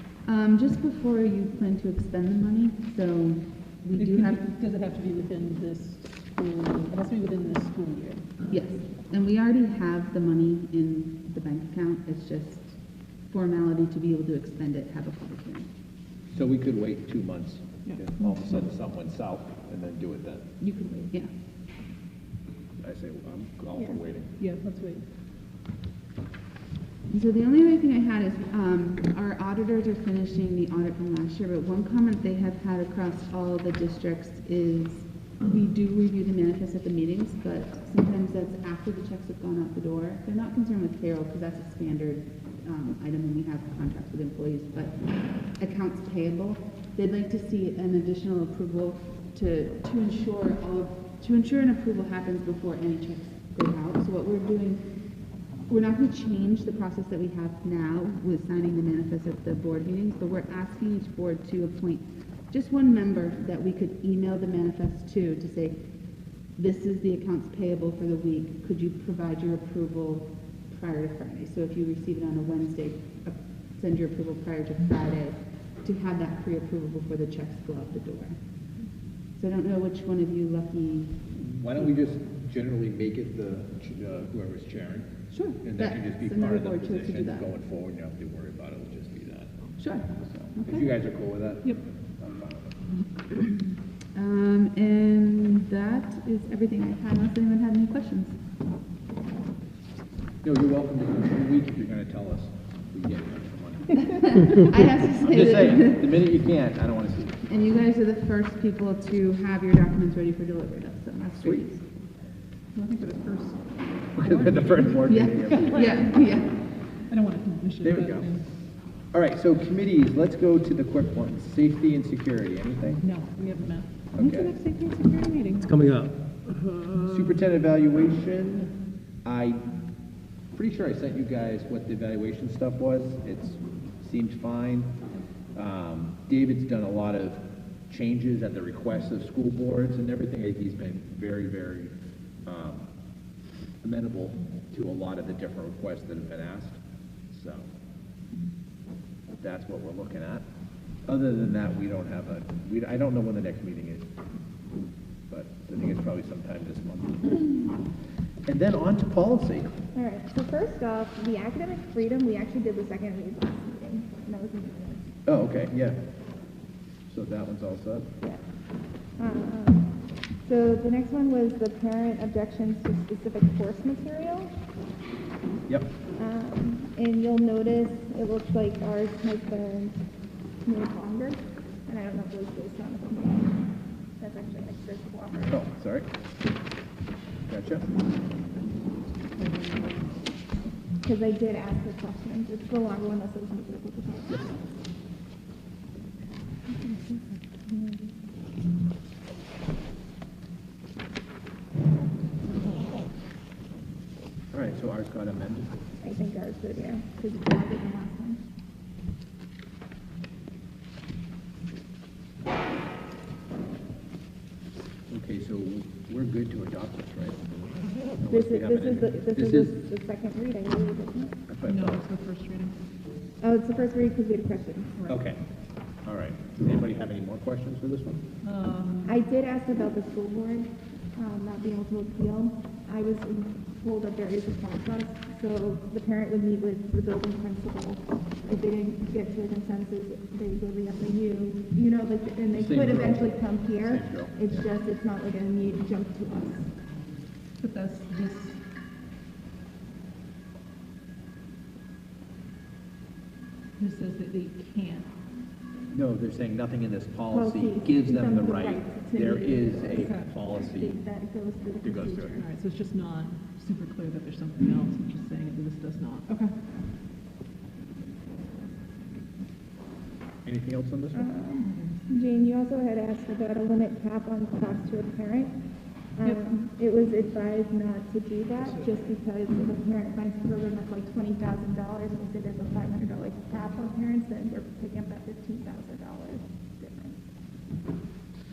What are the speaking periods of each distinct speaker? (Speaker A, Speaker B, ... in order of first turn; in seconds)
Speaker A: 0.2-4.4, 8.5-12.8, 13.3-15.7, 20.6-21.3, 27.1-54.9, 55.7-65.8, 66.6-78.3, 79.4-81.2, 85.3-87.5, 89.8-90.9, 94.1-98.4, 104.0-106.1, 107.5-111.8, 115.1-116.5
Speaker B: 4.0-8.2, 24.4-25.0, 112.7-116.4, 117.1-118.4, 123.0-125.9, 189.4-190.1, 196.8-197.2, 221.6-222.8, 228.4-229.2, 247.6-248.6, 253.8-255.1, 262.4-266.5, 271.6-272.0
Speaker C: 16.3-20.4, 22.8-24.4, 81.3-85.1, 85.6-92.8, 100.4-107.5, 111.4-111.6, 114.2-115.9, 117.8-118.3, 119.1-123.0, 124.1-124.5, 127.0-128.7, 129.2-129.6, 130.5-134.9, 135.5-141.9, 142.4-142.9, 143.8-147.7, 149.4-150.4, 151.1-154.0, 155.3-157.7, 158.5-159.7, 165.2-166.0, 167.1-168.1, 185.5-186.1, 187.5-187.9, 204.5-205.7, 215.1-219.8, 221.5-222.0, 225.1-225.4, 226.0-228.2, 242.5-244.6, 255.9-260.9, 261.8-262.4, 270.4-271.3
Speaker D: 159.9-165.1, 169.2-169.9, 170.4-174.5, 176.2-180.0, 180.6-183.7, 184.2-185.6, 191.0-194.4, 206.0-208.4, 218.3-221.4, 223.4-225.0, 229.0-246.7, 257.3-262.5, 271.1-275.5, 276.1-287.2